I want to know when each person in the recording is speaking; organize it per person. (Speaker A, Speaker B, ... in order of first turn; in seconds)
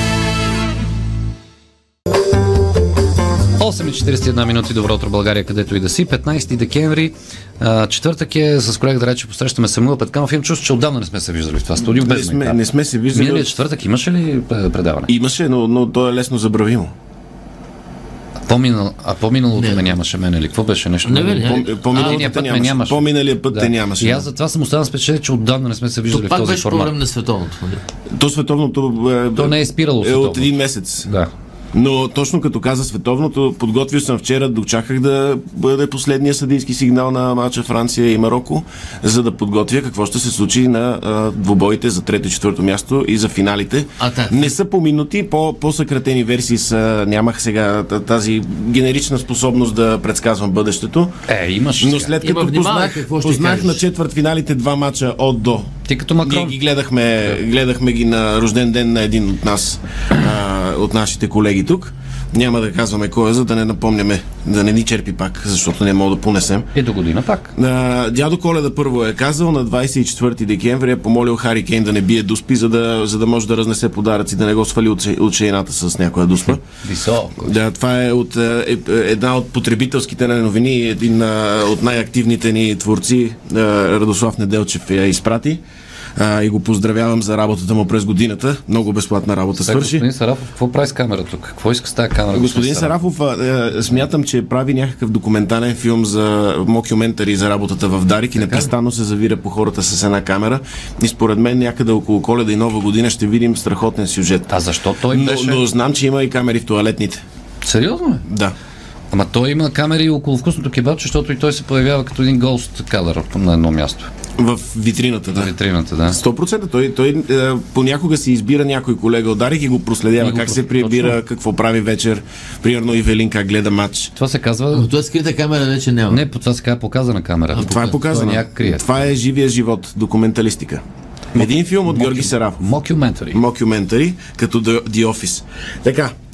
Speaker A: 3.6-15.1, 18.5-26.9, 29.4-30.5, 31.0-31.3, 51.3-52.1, 55.9-56.6, 66.8-67.5, 76.8-77.5, 89.6-93.0, 98.4-98.7, 104.5-105.7, 107.6-108.2, 109.1-114.1, 115.3-116.2, 120.2-121.2, 124.2-124.9, 126.1-128.9, 131.3-133.4
Speaker B: 11.8-13.6, 15.1-16.9, 21.4-24.3, 28.1-31.1, 31.7-51.1, 51.8-55.7, 56.2-66.7, 67.5-76.6, 77.4-85.6, 86.2-90.1, 92.3-104.5, 105.1-107.2, 108.3-108.5, 114.4-115.5, 116.1-124.1, 127.5-130.8, 131.3-132.6, 133.3-136.1
Speaker C: 19.6-19.9, 21.1-22.3, 26.1-27.8, 44.0-44.5, 52.2-53.8, 124.7-126.2